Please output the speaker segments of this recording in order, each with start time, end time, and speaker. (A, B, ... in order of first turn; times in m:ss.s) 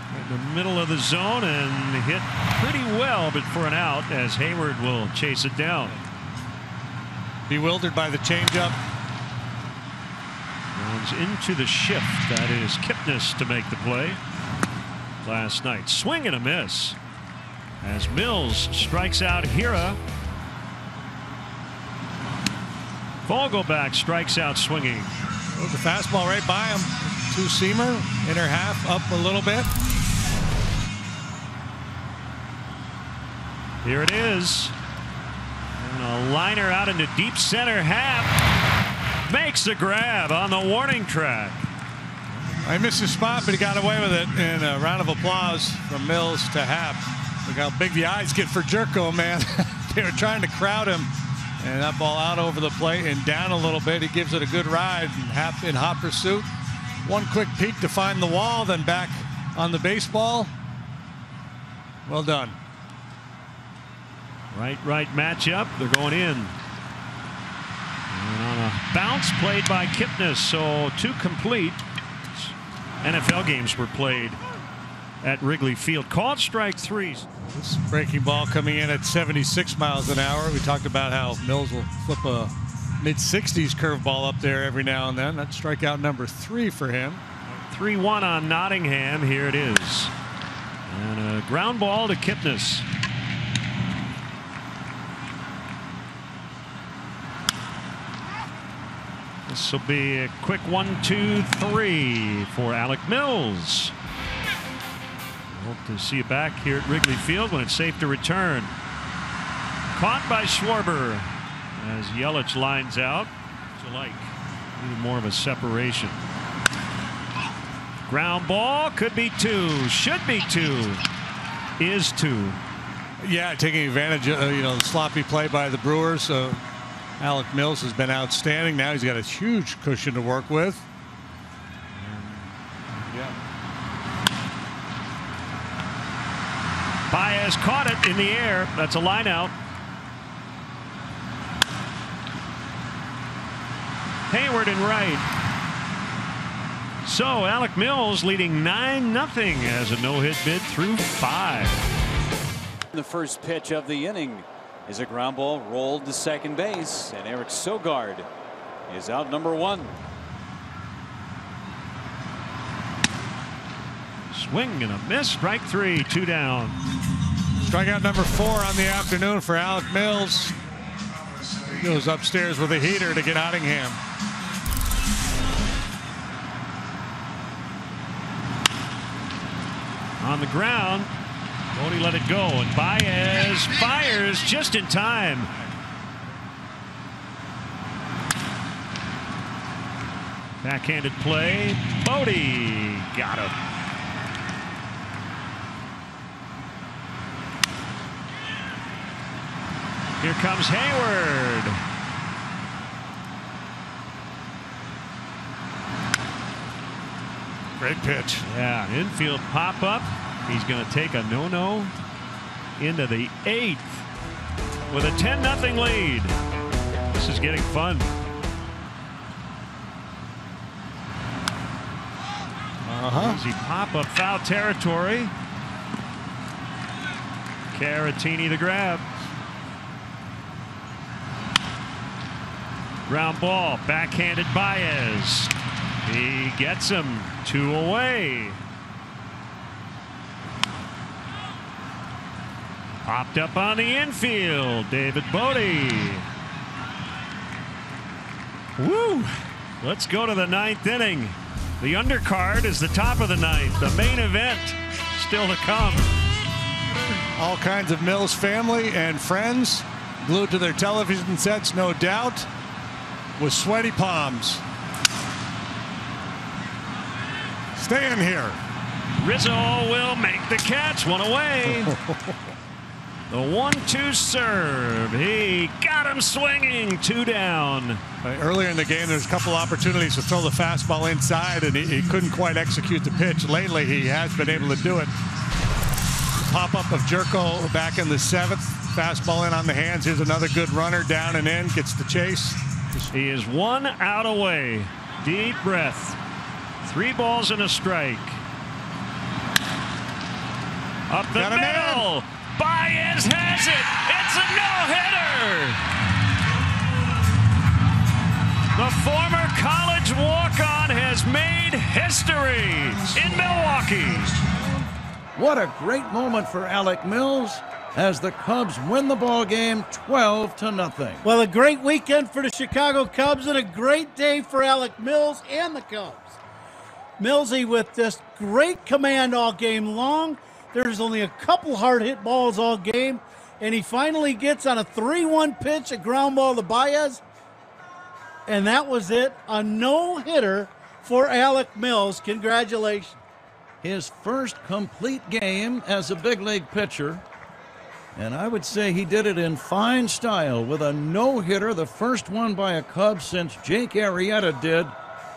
0:00.1-0:06.0 A
0:07.5-0:08.8 B
0:10.7-0:14.2 A
0:15.2-0:17.0 A
0:17.8-0:20.0 A
0:23.2-0:25.1 A
0:25.5-0:29.7 B
0:33.8-0:34.8 A
0:35.8-0:38.4 A
0:39.3-0:41.6 A
0:42.6-0:51.1 B
0:51.6-0:56.5 B
0:57.0-1:00.5 B
1:02.1-1:02.6 B
1:04.5-1:06.6 A
1:08.1-1:14.4 A
1:15.2-1:17.3 A
1:17.4-1:27.2 B
1:27.5-1:30.1 A
1:30.9-1:32.9 A
1:39.5-1:44.0 A
1:45.5-1:48.7 A
1:49.9-1:56.2 A
1:58.1-2:01.0 A
2:01.8-2:02.6 A
2:03.2-2:06.6 B
2:07.2-2:10.9 B
2:12.0-2:13.0 A
2:17.1-2:19.6 A
2:24.3-2:25.3 A
2:27.0-2:31.8 A
2:32.9-2:38.3 C
2:38.9-2:40.0 C
2:44.3-2:46.8 A
2:47.6-2:50.6 B
2:51.4-2:54.0 B
3:00.2-3:01.1 A
3:01.7-3:05.5 A
3:10.6-3:13.6 A
3:20.2-3:21.8 A
3:27.8-3:28.5 B
3:28.4-3:32.0 A
3:32.8-3:34.1 A
3:34.9-3:36.4 A
3:37.1-3:38.1 A
3:42.8-3:43.4 B
3:43.1-3:45.3 A
3:47.7-3:49.1 A
3:53.1-3:55.5 A
3:56.0-3:58.6 A
4:03.0-4:06.3 A
4:08.8-4:16.1 A
4:17.4-4:22.5 B
4:23.4-4:24.6 B
4:27.7-4:28.6 B
4:29.2-4:32.0 A
4:31.9-4:32.3 B
4:33.3-4:38.0 A
4:38.2-4:45.1 B
4:46.4-4:52.6 B
4:53.1-4:56.2 A
4:56.8-4:58.4 A
5:01.1-5:05.9 A
5:01.3-5:02.1 B
5:08.7-5:14.4 A
5:15.4-5:21.3 D
5:21.2-5:26.4 E
5:27.2-5:37.2 E
5:38.5-5:43.2 E
5:43.8-5:47.2 D
5:48.2-5:55.0 D